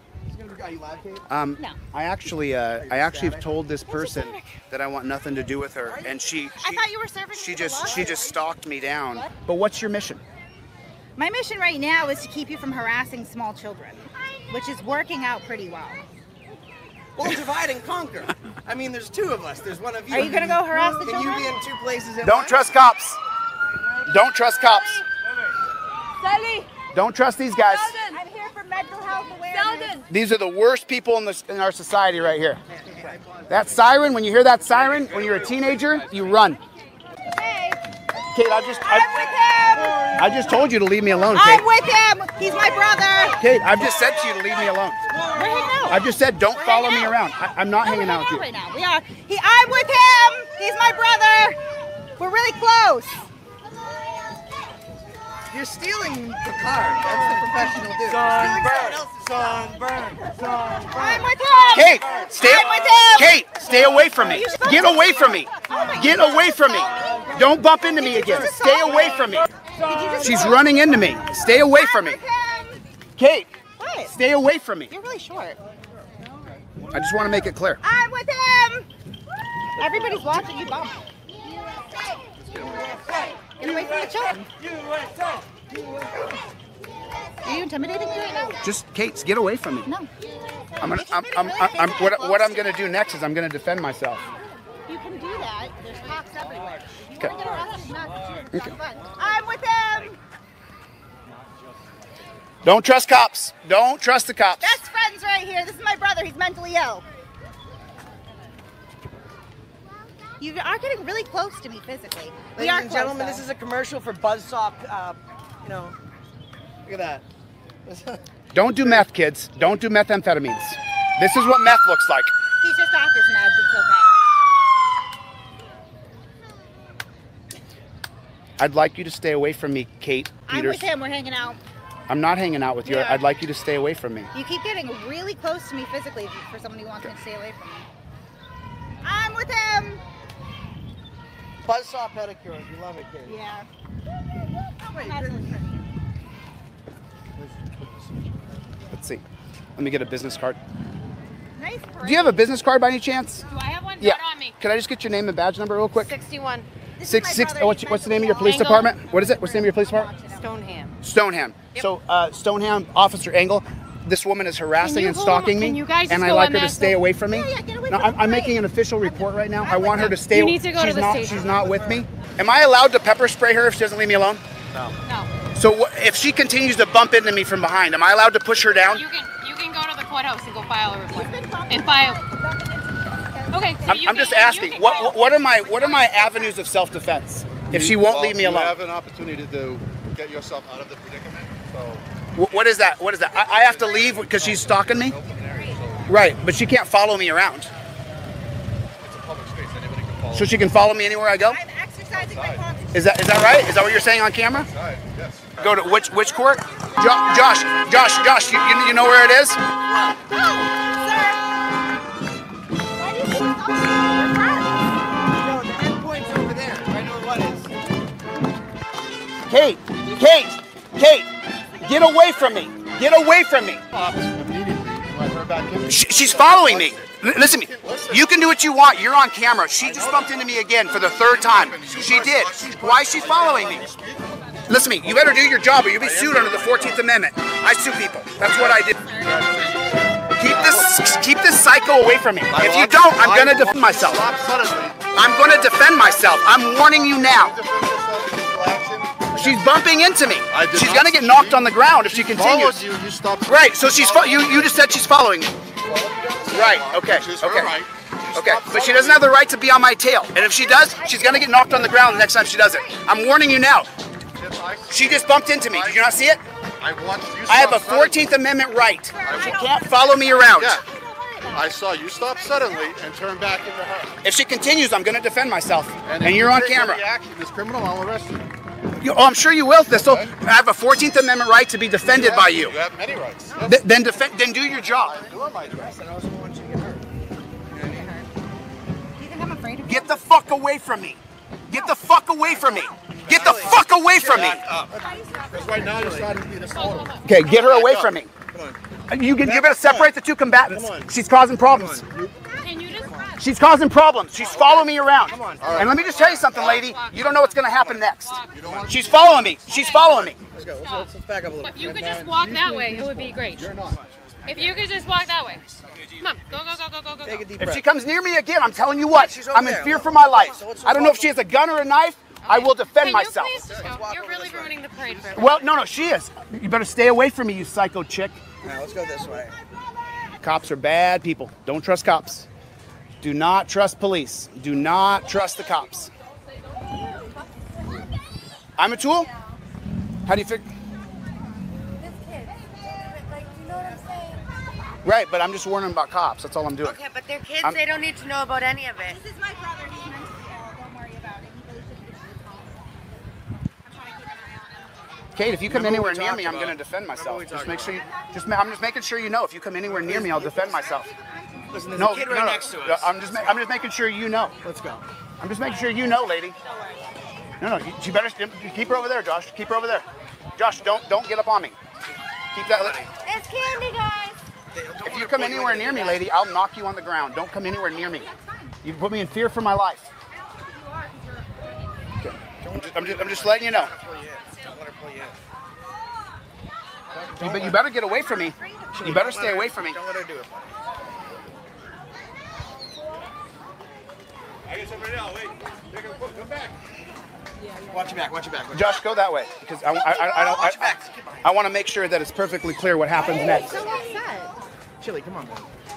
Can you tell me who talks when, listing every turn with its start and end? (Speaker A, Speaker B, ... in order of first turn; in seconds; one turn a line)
Speaker A: 0.3-1.3
Speaker B: 1.3-10.2
Speaker A: 2.7-3.5
Speaker C: 3.9-4.5
Speaker A: 5.8-6.2
Speaker C: 6.6-8.4
Speaker C: 11.2-16.0
Speaker A: 17.2-22.6
Speaker C: 20.1-21.6
Speaker B: 22.2-23.2
Speaker B: 24.1-25.1
Speaker B: 26.9-28.1
Speaker C: 28.0-30.0
Speaker B: 30.1-32.6
Speaker A: 32.8-33.6
Speaker B: 33.5-36.6
Speaker C: 37.3-37.8
Speaker B: 38.3-39.2
Speaker C: 38.5-40.2
Speaker B: 40.1-41.7
Speaker C: 41.3-43.4
Speaker B: 43.4-45.0
Speaker A: 45.1-45.9
Speaker C: 45.3-47.2
Speaker B: 45.9-48.5
Speaker C: 47.8-51.6
Speaker C: 52.2-53.3
Speaker A: 55.5-61.2
Speaker C: 58.4-58.9
Speaker C: 60.9-63.4
Speaker B: 61.7-69.5
Speaker C: 64.1-72.8
Speaker B: 70.2-72.2
Speaker B: 73.2-73.5
Speaker C: 73.8-74.2
Speaker B: 74.1-74.9
Speaker C: 74.9-75.6
Speaker B: 76.9-77.8
Speaker C: 77.8-78.9
Speaker C: 79.8-81.0
Speaker C: 83.5-84.5
Speaker C: 87.4-88.6
Speaker B: 88.6-89.9
Speaker B: 90.8-94.3
Speaker C: 90.8-92.8
Speaker C: 94.9-100.2
Speaker B: 102.6-104.8
Speaker C: 104.6-107.0
Speaker C: 110.4-113.5
Speaker A: 112.5-116.0
Speaker A: 116.9-117.2
Speaker A: 117.9-118.2
Speaker B: 118.5-122.3
Speaker C: 122.6-124.2
Speaker B: 128.6-130.9
Speaker C: 130.5-131.6
Speaker B: 132.1-134.3
Speaker C: 132.8-133.3
Speaker C: 134.3-137.9
Speaker C: 139.0-140.0
Speaker A: 141.6-143.4
Speaker C: 143.2-143.7
Speaker C: 144.8-145.8
Speaker A: 145.0-145.3
Speaker A: 147.4-147.9
Speaker B: 148.9-149.2
Speaker B: 149.8-150.6
Speaker C: 151.6-152.5
Speaker B: 152.0-153.4
Speaker D: 153.5-154.6
Speaker B: 154.0-156.1
Speaker D: 156.0-156.7
Speaker C: 157.0-160.6
Speaker B: 157.0-160.1
Speaker D: 158.4-158.9
Speaker D: 160.4-160.9
Speaker B: 161.0-174.9
Speaker D: 164.8-167.0
Speaker C: 167.3-170.2
Speaker D: 170.2-171.5
Speaker C: 171.5-172.0
Speaker D: 175.0-175.3
Speaker B: 175.5-179.1
Speaker D: 178.9-182.2
Speaker C: 181.1-184.2
Speaker D: 183.5-186.5
Speaker B: 183.9-188.8
Speaker E: 187.7-192.0
Speaker B: 192.3-195.2
Speaker E: 193.5-196.3
Speaker C: 193.6-194.1
Speaker C: 195.3-196.1
Speaker B: 196.1-197.7
Speaker E: 199.0-200.5
Speaker B: 200.3-201.6
Speaker C: 201.4-203.8
Speaker E: 202.2-202.7
Speaker B: 202.9-204.7
Speaker E: 204.5-205.9
Speaker B: 205.6-209.6
Speaker C: 206.0-208.3
Speaker A: 209.8-210.2
Speaker C: 210.2-211.4
Speaker C: 213.0-214.8
Speaker A: 215.2-217.7
Speaker B: 219.5-221.3
Speaker B: 221.8-223.8
Speaker E: 223.9-228.3
Speaker B: 225.9-233.9
Speaker E: 229.8-230.4
Speaker E: 231.2-234.2
Speaker B: 234.7-239.1
Speaker E: 235.0-237.0
Speaker E: 238.4-240.9
Speaker B: 240.4-244.3
Speaker E: 242.5-246.3
Speaker B: 245.1-247.6
Speaker E: 247.1-249.6
Speaker B: 249.3-252.8
Speaker E: 250.5-254.8
Speaker B: 253.5-255.5
Speaker E: 255.8-259.3
Speaker B: 256.5-263.9
Speaker C: 260.4-263.2
Speaker E: 264.4-266.0
Speaker B: 264.9-266.4
Speaker E: 266.8-268.2
Speaker B: 267.5-270.8
Speaker C: 269.1-273.1
Speaker E: 269.2-269.6
Speaker E: 270.5-270.8
Speaker E: 271.5-274.2
Speaker B: 274.2-277.0
Speaker E: 276.1-278.5
Speaker B: 279.0-282.8
Speaker E: 279.9-280.3
Speaker E: 282.0-283.8
Speaker B: 283.6-285.3
Speaker E: 285.0-286.0
Speaker A: 285.2-287.1
Speaker A: 287.8-288.1
Speaker C: 287.8-288.3
Speaker C: 289.2-290.3
Speaker B: 289.9-294.6
Speaker A: 293.2-296.4
Speaker E: 293.3-293.6
Speaker E: 294.2-294.9
Speaker C: 295.0-296.0
Speaker E: 295.5-298.1
Speaker D: 296.7-297.9
Speaker B: 297.2-298.3
Speaker A: 298.5-298.8
Speaker B: 299.1-302.0
Speaker A: 299.4-300.1
Speaker A: 300.7-301.1
Speaker A: 301.7-302.3
Speaker D: 302.6-303.4
Speaker A: 302.9-303.4
Speaker B: 303.4-310.4
Speaker A: 304.4-306.3
Speaker E: 305.6-305.9
Speaker D: 305.9-308.9
Speaker E: 308.5-309.2
Speaker D: 309.6-311.1
Speaker A: 310.1-312.4
Speaker D: 311.6-313.7
Speaker E: 312.3-314.1
Speaker A: 313.8-314.8
Speaker D: 314.4-317.5
Speaker A: 317.2-317.9
Speaker B: 317.6-323.6
Speaker A: 319.1-321.3
Speaker D: 322.4-325.6
Speaker A: 323.5-324.8
Speaker E: 323.7-324.0
Speaker F: 324.8-325.6
Speaker B: 325.3-328.4
Speaker A: 328.6-329.6
Speaker B: 330.4-332.5
Speaker B: 333.2-336.1
Speaker B: 338.8-339.3
Speaker B: 340.3-340.7
Speaker B: 345.0-347.0
Speaker F: 346.8-349.2
Speaker C: 349.0-353.0
Speaker C: 353.9-355.0
Speaker B: 355.4-361.1
Speaker A: 355.7-358.0
Speaker C: 357.9-358.5
Speaker A: 359.9-360.6
Speaker C: 360.4-362.2
Speaker A: 361.7-363.3
Speaker B: 361.9-364.6
Speaker A: 364.6-365.1
Speaker B: 365.4-366.6
Speaker B: 367.6-370.1
Speaker B: 370.6-371.8
Speaker B: 372.5-373.0
Speaker C: 373.2-374.4
Speaker A: 374.7-376.2
Speaker B: 375.0-378.3
Speaker C: 378.0-378.8
Speaker B: 378.8-380.1
Speaker C: 380.4-381.5
Speaker B: 382.2-383.9
Speaker A: 382.6-385.4
Speaker A: 387.1-387.8
Speaker B: 387.4-390.0
Speaker C: 388.4-389.0
Speaker A: 388.9-390.7
Speaker E: 396.2-396.5
Speaker A: 397.9-398.9
Speaker B: 398.7-403.8
Speaker A: 400.0-401.5
Speaker C: 403.3-404.6
Speaker A: 405.0-405.7